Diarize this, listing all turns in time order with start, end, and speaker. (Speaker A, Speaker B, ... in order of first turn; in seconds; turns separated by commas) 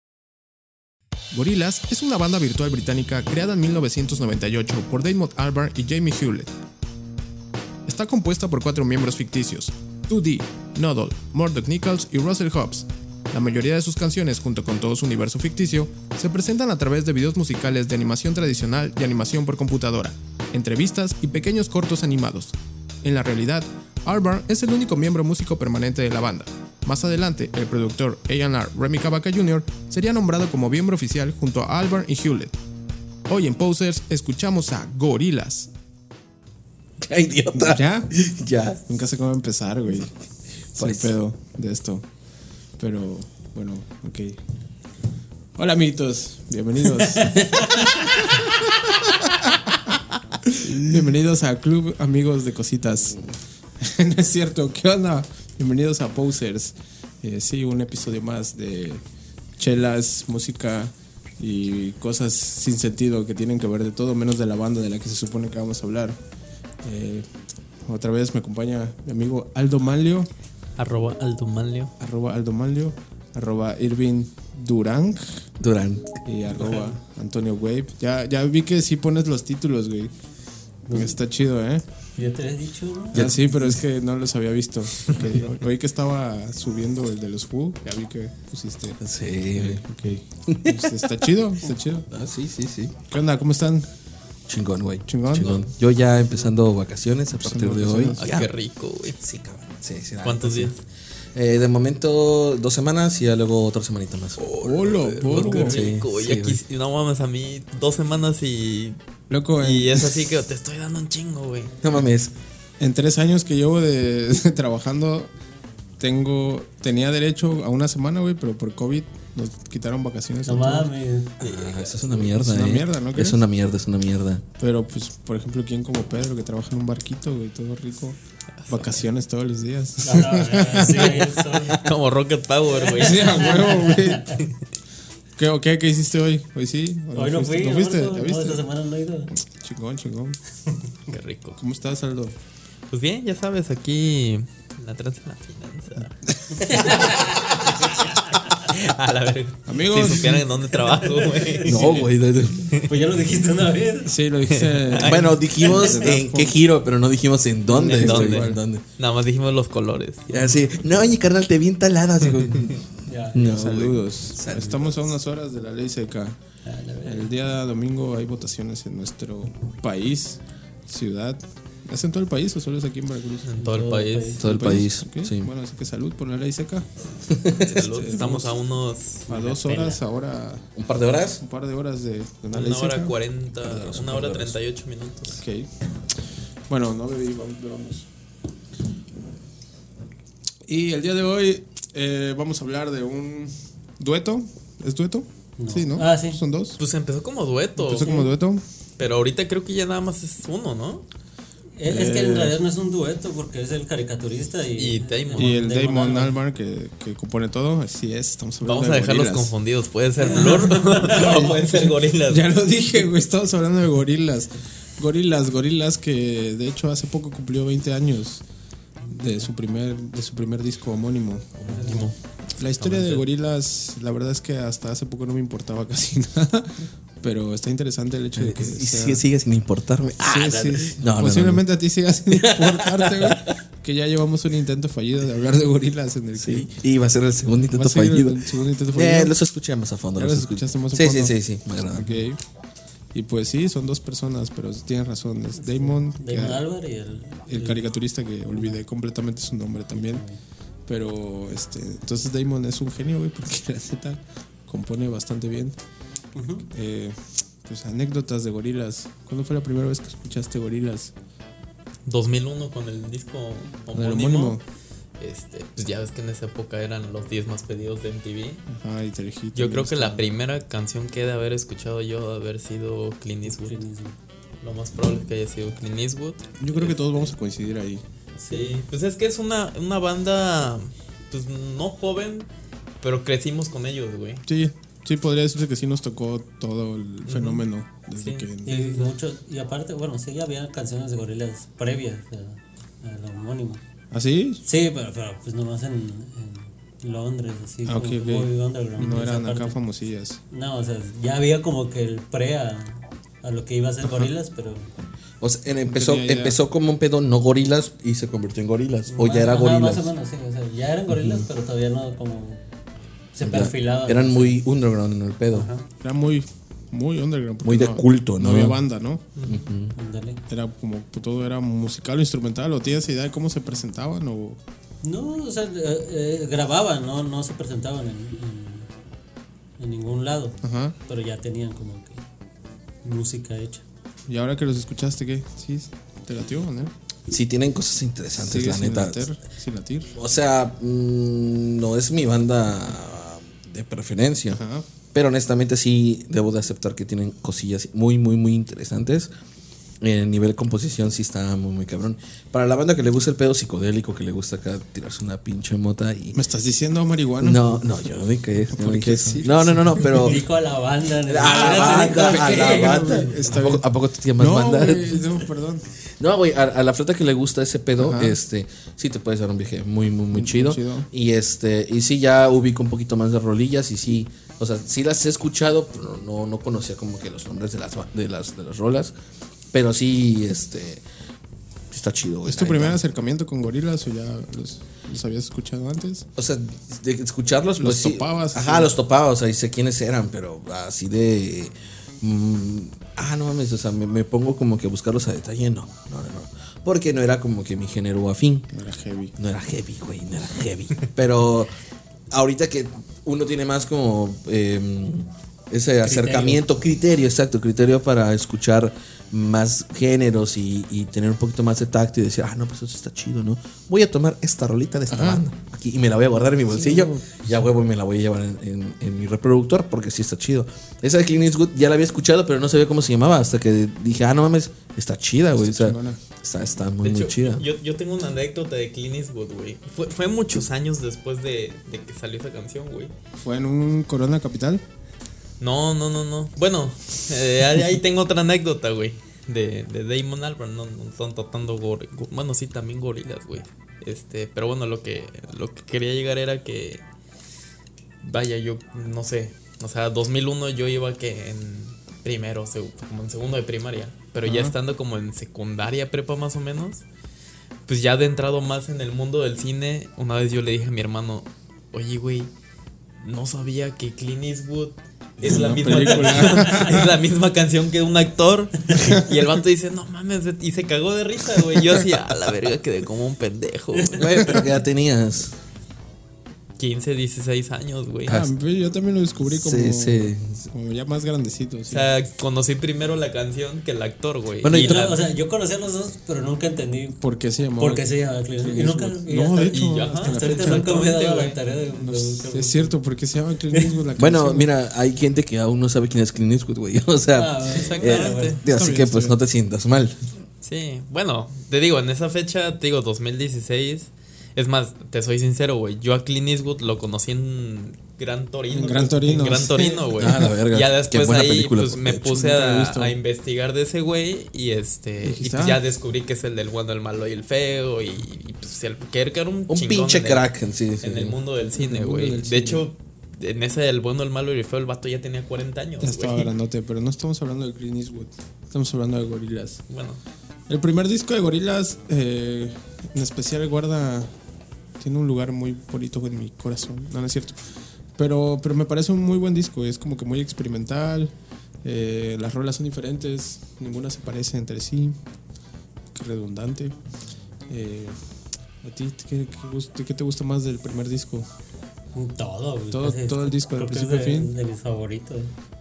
Speaker A: 1.3-6.5, Speaker A: 7.8-32.5, Speaker A: 33.3-35.7, Speaker B: 37.0-38.8, Speaker A: 37.5-38.1, Speaker A: 38.8-40.1, Speaker A: 40.7-42.0, Speaker B: 40.8-41.1, Speaker A: 42.8-44.4, Speaker A: 45.6-49.4, Speaker A: 50.5-53.3, Speaker A: 53.8-59.0, Speaker A: 59.6-66.2, Speaker A: 66.8-67.3, Speaker A: 67.8-70.3, Speaker C: 70.8-71.9, Speaker A: 72.0-75.5, Speaker B: 75.6-76.2, Speaker A: 76.2-80.1, Speaker D: 80.9-81.2, Speaker A: 80.9-81.8, Speaker D: 82.2-83.3, Speaker A: 83.1-92.1, Speaker B: 83.1-83.5, Speaker B: 89.0-89.8, Speaker B: 90.5-91.1, Speaker B: 92.1-93.0, Speaker A: 93.1-93.9, Speaker B: 94.5-98.5, Speaker A: 95.1-95.6, Speaker A: 97.4-98.2, Speaker C: 98.2-99.2, Speaker B: 99.1-100.8, Speaker C: 100.2-100.8, Speaker B: 101.3-104.4, Speaker A: 104.4-105.8, Speaker C: 104.6-109.0, Speaker B: 105.2-106.6, Speaker A: 109.3-110.3, Speaker C: 109.6-111.8, Speaker B: 111.8-112.3, Speaker A: 112.8-115.3, Speaker A: 116.0-120.9, Speaker D: 120.5-121.4, Speaker C: 121.4-122.1, Speaker B: 121.4-124.5, Speaker A: 122.1-123.4, Speaker A: 124.6-128.2, Speaker C: 128.6-129.0, Speaker A: 128.7-131.4, Speaker D: 130.0-131.8, Speaker C: 131.2-133.9, Speaker D: 132.8-134.4, Speaker A: 132.9-134.4, Speaker A: 135.4-138.7, Speaker D: 137.1-139.3, Speaker A: 139.4-140.4, Speaker C: 141.1-141.6, Speaker A: 141.6-142.4, Speaker C: 142.9-146.1, Speaker A: 146.3-146.8, Speaker D: 146.6-148.3, Speaker C: 146.7-152.1, Speaker A: 149.7-150.5, Speaker D: 150.8-151.7, Speaker B: 151.7-152.8, Speaker D: 152.9-154.2, Speaker A: 154.1-156.6, Speaker C: 154.5-155.8, Speaker B: 155.0-158.8, Speaker A: 157.7-158.6, Speaker C: 157.8-160.6, Speaker B: 160.3-164.9, Speaker D: 163.1-163.4, Speaker A: 163.3-166.4, Speaker D: 166.7-167.3, Speaker A: 167.0-173.5, Speaker C: 173.4-174.4, Speaker D: 173.6-174.4, Speaker B: 174.4-175.5, Speaker A: 174.4-176.9, Speaker B: 177.3-177.8, Speaker C: 177.6-179.4, Speaker A: 177.8-178.6, Speaker A: 179.3-180.7, Speaker D: 179.3-180.0, Speaker B: 180.8-181.4, Speaker A: 181.4-183.2, Speaker C: 182.5-185.4, Speaker B: 183.6-184.6, Speaker A: 185.3-185.7, Speaker A: 186.7-188.1, Speaker A: 190.7-196.8, Speaker D: 195.6-196.4, Speaker C: 196.8-198.3, Speaker A: 197.8-198.6, Speaker D: 197.9-198.3, Speaker C: 199.0-201.1, Speaker D: 201.8-206.4, Speaker A: 201.9-202.6, Speaker C: 204.8-205.6, Speaker A: 205.3-209.5, Speaker C: 208.6-212.6, Speaker D: 210.2-211.1, Speaker A: 210.2-218.4, Speaker A: 219.1-222.0, Speaker D: 221.7-222.1, Speaker C: 221.8-223.3, Speaker A: 222.6-229.2, Speaker B: 228.3-231.6, Speaker A: 230.2-236.7, Speaker B: 232.3-233.5, Speaker B: 236.3-242.2, Speaker A: 237.7-239.3, Speaker A: 240.2-242.4, Speaker A: 243.1-246.7, Speaker D: 245.6-247.9, Speaker A: 247.5-250.2, Speaker D: 248.5-248.8, Speaker D: 249.9-250.4, Speaker A: 250.9-255.8, Speaker D: 256.4-256.7, Speaker A: 256.7-261.1, Speaker C: 262.1-264.6, Speaker A: 263.9-264.6, Speaker C: 265.2-268.6, Speaker A: 268.7-270.4, Speaker C: 269.6-273.8, Speaker D: 273.5-274.2, Speaker C: 274.6-277.3, Speaker A: 276.6-278.0, Speaker D: 278.4-278.8, Speaker C: 278.5-282.5, Speaker C: 283.0-284.4, Speaker A: 284.5-288.8, Speaker C: 287.3-287.7, Speaker C: 288.2-288.5, Speaker D: 288.6-293.8, Speaker A: 294.1-294.6, Speaker D: 294.6-299.8, Speaker A: 297.9-300.4, Speaker D: 300.5-304.9, Speaker A: 304.0-304.3, Speaker B: 305.4-310.1, Speaker A: 305.9-306.6, Speaker D: 309.1-312.6, Speaker B: 311.1-311.5, Speaker D: 313.3-314.6, Speaker B: 313.4-315.7, Speaker D: 315.5-315.9, Speaker A: 316.0-319.3, Speaker B: 317.6-318.8, Speaker C: 319.4-319.6, Speaker B: 319.4-319.9, Speaker D: 319.9-320.4, Speaker A: 320.5-324.6, Speaker D: 325.0-328.9, Speaker D: 329.8-332.2, Speaker A: 330.6-331.0, Speaker D: 333.0-333.8, Speaker A: 334.3-336.9, Speaker B: 337.3-339.3, Speaker A: 338.4-340.1, Speaker B: 340.1-344.6, Speaker A: 344.5-344.9, Speaker B: 345.1-349.3, Speaker B: 350.0-356.4, Speaker A: 356.3-357.8, Speaker B: 357.4-360.4, Speaker A: 358.7-360.4, Speaker D: 360.0-363.6, Speaker B: 361.3-365.3, Speaker A: 361.4-365.9, Speaker B: 366.2-379.1, Speaker A: 368.0-368.4, Speaker A: 370.3-371.1, Speaker B: 379.7-381.0, Speaker B: 381.9-383.0, Speaker A: 382.5-386.3, Speaker B: 386.4-398.7, Speaker A: 387.8-388.9, Speaker A: 398.7-399.4, Speaker B: 399.4-401.7, Speaker B: 402.3-427.7, Speaker D: 406.1-406.6, Speaker A: 415.1-415.4, Speaker A: 416.7-417.3, Speaker A: 425.6-426.2, Speaker C: 427.0-433.1, Speaker A: 433.4-434.8, Speaker C: 435.6-447.0, Speaker C: 448.2-457.1, Speaker A: 454.4-454.7, Speaker C: 457.9-462.5, Speaker C: 463.2-474.7, Speaker A: 465.4-467.2, Speaker B: 474.1-475.6, Speaker C: 476.8-478.5, Speaker B: 478.3-478.5, Speaker A: 478.3-482.1, Speaker B: 479.4-480.7, Speaker C: 481.9-485.2, Speaker B: 484.6-485.1, Speaker D: 484.7-487.2, Speaker A: 487.2-490.9, Speaker D: 487.8-493.0, Speaker C: 489.7-491.6, Speaker A: 492.0-494.7, Speaker B: 494.2-500.2, Speaker D: 497.4-498.6, Speaker C: 497.7-498.6, Speaker A: 498.7-499.4, Speaker C: 500.6-520.5, Speaker A: 508.7-510.5, Speaker B: 510.2-512.4, Speaker A: 512.2-513.2, Speaker A: 515.2-515.8, Speaker B: 519.7-521.4, Speaker C: 521.0-526.5, Speaker A: 521.7-522.9, Speaker A: 526.0-529.8, Speaker C: 529.9-530.2, Speaker A: 530.7-534.3, Speaker A: 535.0-537.6, Speaker A: 538.2-545.2, Speaker A: 546.1-547.0, Speaker A: 547.7-548.2, Speaker A: 548.8-551.5, Speaker D: 552.1-555.5, Speaker A: 552.9-554.5